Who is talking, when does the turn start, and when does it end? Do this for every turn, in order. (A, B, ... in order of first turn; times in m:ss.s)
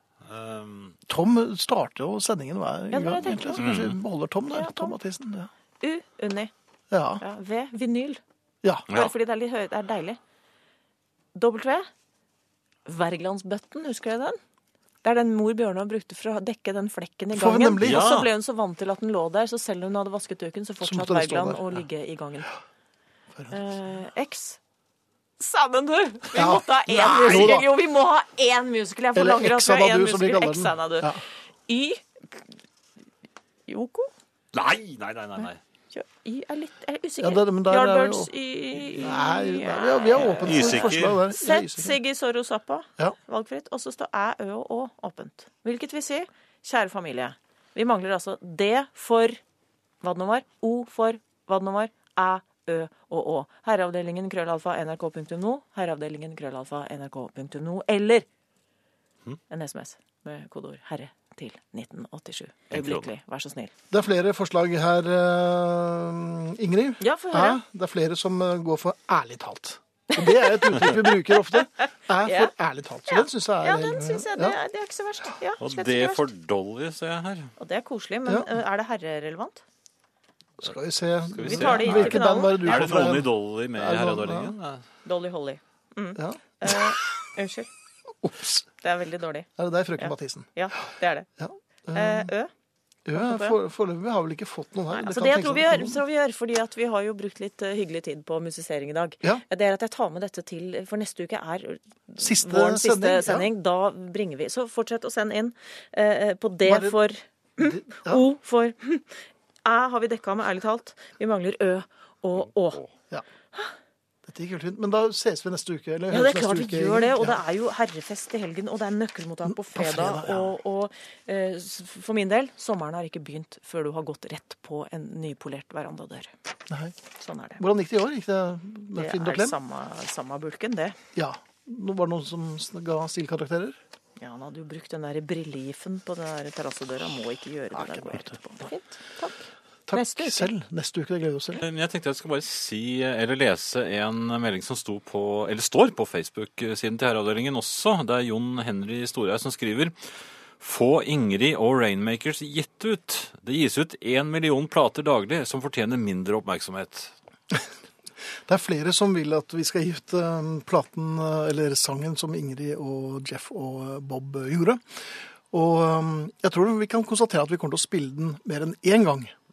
0:00.3-0:01.0 A
0:01.1-0:05.5 B
0:02.9-0:03.7 C
0:03.6-0:04.0 A
0:04.5-0:05.0 C
0:05.8-0:06.5 C
0:06.9-0:07.2 B
0:07.2-0:08.2 C
0:08.9-0:10.2 C
0:11.4-0:11.9 C
0:12.9-0:14.4 C
0:15.0-0:22.5 C
0:17.3-0:18.1 B
0:17.8-0:18.3 A
0:20.8-0:21.8 B
0:23.5-0:24.6 C
0:25.4-0:32.4 C
0:26.4-0:27.7 B
0:29.2-0:31.2 B
0:33.7-0:34.1 C
0:34.5-0:35.6 A
0:35.4-0:49.4 C
0:37.2-0:38.3 B
0:38.9-0:42.0 B
0:40.2-0:41.2 A
0:50.0-0:58.3 C
0:59.5-1:03.7 C
1:02.7-1:03.1 A
1:03.9-1:14.6 B
1:07.0-1:07.6 C
1:10.2-1:11.5 C
1:12.2-1:12.5 C
1:13.1-1:16.3 C
1:15.6-1:17.5 A
1:17.6-1:19.6 C
1:20.6-1:24.5 B
1:21.3-1:24.8 A
1:21.5-1:23.0 C
1:25.0-1:27.7 C
1:26.2-1:27.0 B
1:28.2-1:28.7 B
1:28.8-1:31.3 C
1:29.6-1:30.9 B
1:31.4-1:32.3 B
1:31.9-1:32.5 C
1:33.1-1:36.0 B
1:33.2-1:33.6 C
1:34.9-1:52.8 C
1:42.2-1:43.5 B
1:46.6-1:47.0 B
1:47.6-1:48.3 B
1:52.4-1:52.9 A
1:54.3-1:57.4 B
1:56.1-2:06.3 C
1:59.5-2:00.6 B
2:06.7-2:07.0 B
2:07.2-2:07.6 C
2:07.6-2:09.6 B
2:09.0-2:11.0 C
2:11.2-2:13.8 B
2:14.2-2:20.5 C
2:17.8-2:18.4 B
2:19.9-2:21.6 B
2:21.6-2:29.9 A
2:30.6-2:37.1 A
2:38.5-2:44.8 B
2:45.5-2:49.3 B